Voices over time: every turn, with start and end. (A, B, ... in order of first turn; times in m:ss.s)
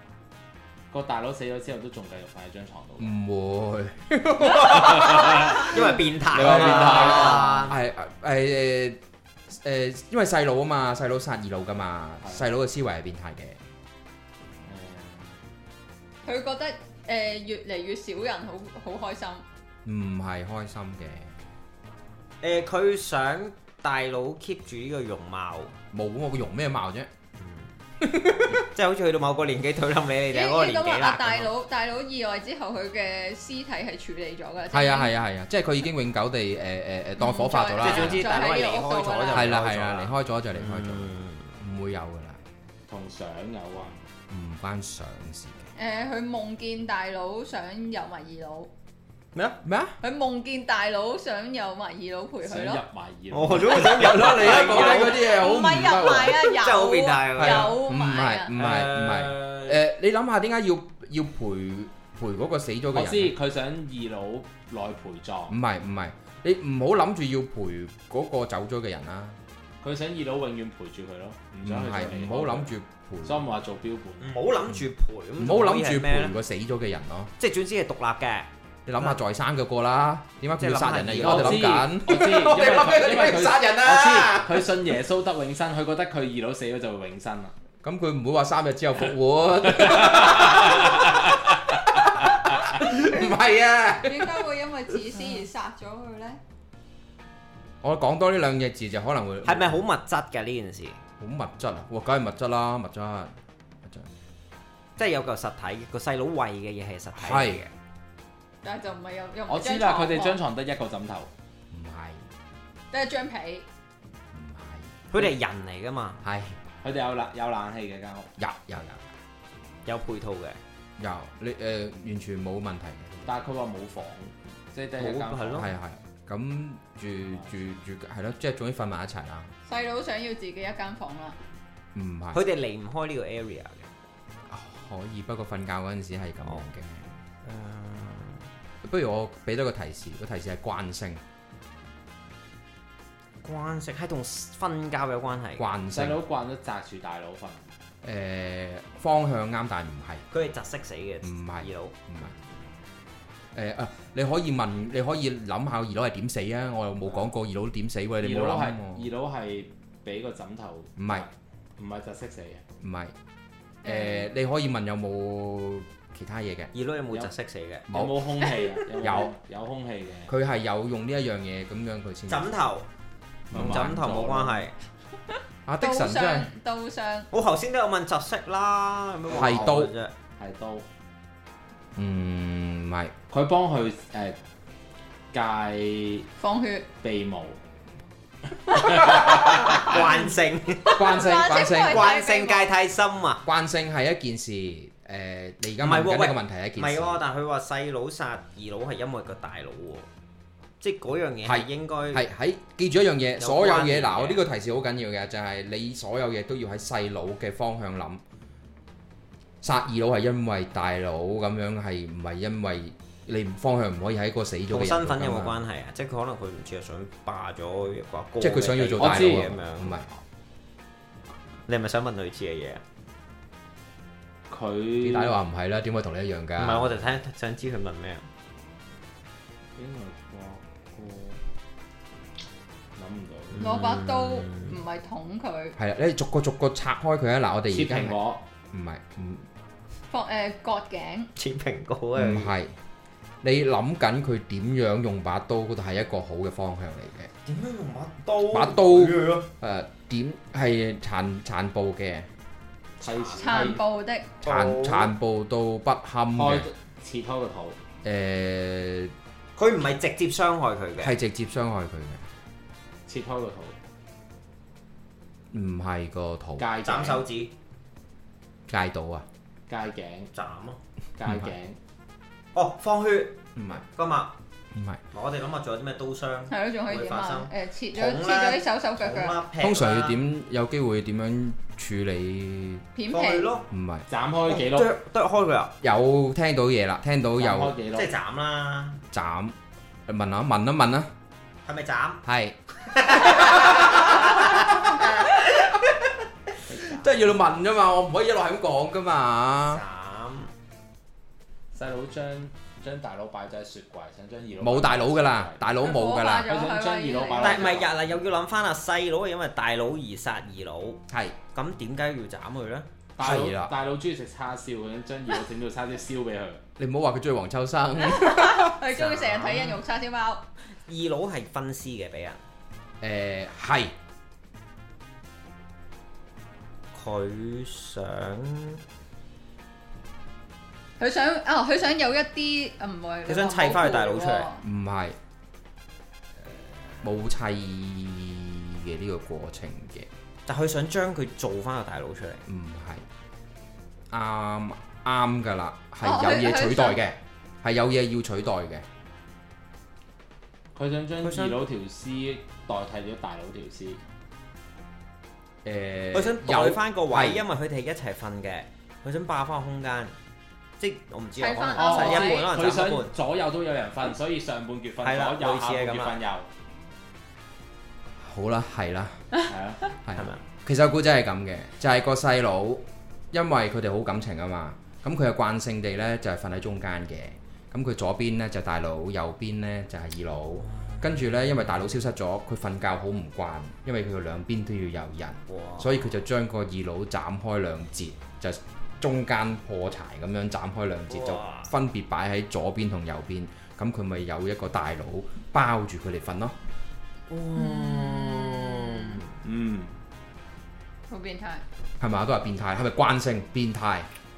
0:00.9-0:03.2 A
0:03.0-0:13.6 B
0:04.4-0:07.7 C
0:05.1-0:07.7 A
0:12.2-0:12.5 A
0:14.6-0:15.4 A
0:16.2-0:19.4 D
0:19.8-0:21.3 B
0:22.4-0:25.7 C
0:25.9-0:27.1 B
0:27.4-0:27.7 C
0:28.0-0:28.6 B
0:28.5-0:31.5 C
0:30.3-0:35.1 D
0:34.7-0:38.3 B
0:37.2-0:39.5 D
0:37.8-0:41.5 C
0:39.3-0:42.4 B
0:42.9-0:44.0 A
0:44.3-0:45.7 B
0:45.7-0:48.7 D
0:49.3-0:49.6 C
0:49.6-0:50.0 B
0:50.0-0:52.8 D
0:52.4-0:55.1 A
0:53.3-0:55.3 C
0:53.7-0:56.6 B
0:55.2-0:58.5 D
0:56.6-0:57.8 C
0:57.4-1:03.3 B
0:58.5-0:59.8 C
1:02.9-1:05.6 A
1:05.5-1:09.4 B
1:09.8-1:14.6 A
1:11.6-1:13.4 B
1:14.2-1:16.4 C
1:15.4-1:17.3 B
1:17.4-1:18.5 C
1:18.9-1:24.6 B
1:20.5-1:21.7 C
1:21.2-1:27.5 A
1:27.8-1:31.2 B
1:29.8-1:31.3 A
1:31.8-1:34.4 B
1:34.0-1:36.4 D
1:37.8-1:39.8 B
1:39.4-1:41.0 C
1:41.2-1:44.1 B
1:45.0-1:47.7 C
1:47.2-1:47.6 B
1:48.6-1:50.4 D
1:49.5-1:51.3 A
1:51.7-1:52.3 B
1:52.9-1:53.6 D
1:54.3-1:54.9 B
1:55.1-1:56.2 C
1:56.2-1:56.6 B
1:56.8-1:58.3 A
1:58.4-1:59.1 B
1:59.8-2:00.6 C
2:01.0-2:03.4 B
2:03.2-2:05.7 A
2:05.0-2:05.7 C
2:05.6-2:09.5 B
2:07.3-2:07.6 A
2:09.6-2:11.4 D
2:11.9-2:12.4 B
2:12.3-2:13.9 C
2:14.5-2:17.1 B
2:17.4-2:18.4 C
2:18.8-2:21.2 B
2:23.4-2:25.6 C
2:25.6-2:26.2 B
2:25.9-2:27.7 A
2:28.0-2:30.3 B
2:30.3-2:32.4 C
2:31.2-2:32.3 B
2:33.5-2:39.1 B
2:38.2-2:42.6 A
2:41.0-2:41.3 B
2:42.8-2:43.1 B
2:43.8-2:46.7 B
2:43.8-2:44.3 D
2:46.7-2:47.9 C
2:47.9-2:48.2 B
2:47.9-2:50.3 A
2:49.0-2:49.3 B
2:50.3-2:52.5 B
2:52.3-2:52.9 C
2:53.5-2:54.0 B
2:53.5-2:54.7 A
2:53.5-2:54.7 C
2:55.6-2:56.5 B
2:55.8-2:57.3 D
2:57.3-3:00.1 C
2:59.3-2:59.8 A
2:59.3-2:59.9 B
3:00.4-3:00.8 A
3:02.0-3:03.1 B
3:03.3-3:04.4 A
3:05.3-3:06.3 A
3:06.4-3:06.9 D
3:07.0-3:07.6 A
3:08.6-3:10.2 A
3:08.8-3:11.0 C
3:09.5-3:10.1 D
3:10.8-3:12.7 D
3:10.9-3:12.1 B
3:11.9-3:13.4 C
3:13.4-3:17.2 B
3:15.8-3:20.1 C
3:20.8-3:22.2 C
3:21.4-3:28.2 B
3:23.4-3:24.4 C
3:29.6-3:35.6 B
3:34.7-3:40.2 C
3:38.4-3:40.1 B
3:39.0-3:39.5 A
3:41.7-3:42.8 C
3:44.5-3:45.4 A
3:45.0-3:47.1 B
3:46.6-3:48.3 C
3:49.8-3:51.4 A
3:53.0-3:53.6 A
3:53.5-3:54.8 C
3:53.6-3:55.8 D
3:55.8-3:58.2 B
3:57.7-3:58.4 A
3:58.7-3:59.5 B
4:00.1-4:01.3 D
4:01.4-4:02.5 C
4:02.2-4:02.8 B
4:03.4-4:07.3 B
4:07.4-4:09.5 C
4:08.5-4:12.3 B
4:13.0-4:13.7 C
4:13.0-4:13.8 A
4:13.4-4:14.3 D
4:14.4-4:15.1 C
4:14.4-4:16.7 B
4:16.3-4:17.8 A
4:18.0-4:19.1 B
4:19.6-4:21.1 C
4:21.0-4:22.2 B
4:23.1-4:23.8 A
4:25.5-4:26.7 B
4:26.6-4:27.2 A
4:26.8-4:27.5 C
4:28.7-4:29.2 B
4:29.7-4:30.3 A
4:30.3-4:30.8 C
4:31.2-4:31.8 A
4:31.2-4:31.5 B
4:32.5-4:33.4 C
4:33.6-4:33.8 B
4:33.9-4:34.3 C
4:34.7-4:35.0 B
4:35.1-4:40.2 C
4:36.5-4:39.4 D
4:39.6-4:42.8 B
4:42.9-4:43.5 D
4:43.1-4:43.7 C
4:43.7-4:44.0 B
4:44.1-4:44.9 A
4:44.5-4:45.7 C
4:45.8-4:47.8 B
4:47.4-4:48.1 A
4:47.9-4:49.0 C
4:49.1-4:49.5 B
4:50.1-4:51.1 B
4:51.6-4:52.2 C
4:52.2-4:52.6 B
4:52.9-4:55.8 C
4:53.2-4:55.0 B
4:56.6-4:57.6 A
4:56.9-4:59.8 B
4:59.6-5:00.5 C
5:01.7-5:05.8 A
5:04.6-5:06.5 B
5:05.8-5:07.6 D
5:06.4-5:08.0 A
5:07.3-5:12.9 C
5:11.1-5:11.4 B
5:13.2-5:16.6 A
5:13.2-5:13.7 B
5:16.8-5:18.8 B
5:18.0-5:20.4 D
5:18.9-5:19.8 C
5:20.8-5:22.4 C
5:23.0-5:23.9 B
5:26.9-5:28.8 C
5:31.0-5:34.6 D
5:33.2-5:34.5 C
5:34.6-5:35.2 B
5:37.0-5:40.1 B
5:40.4-5:42.4 C
5:42.5-5:43.0 B
5:44.1-5:48.8 B
5:46.0-5:47.0 D
5:50.8-5:54.0 A
5:51.2-5:51.6 C
5:55.6-5:57.4 B
5:56.1-6:00.2 C
6:00.8-6:03.1 C
6:01.4-6:02.5 D
6:01.7-6:06.5 A
6:05.0-6:06.2 C
6:08.2-6:09.3 B
6:09.5-6:09.8 A
6:10.0-6:36.6 B
6:10.2-6:10.4 C
6:20.7-6:21.0 C
6:25.5-6:26.0 C
6:31.1-6:31.7 C
6:37.3-6:39.3 C
6:37.7-6:38.5 D
6:39.4-6:39.9 A
6:41.1-6:41.6 D
6:42.0-6:44.1 B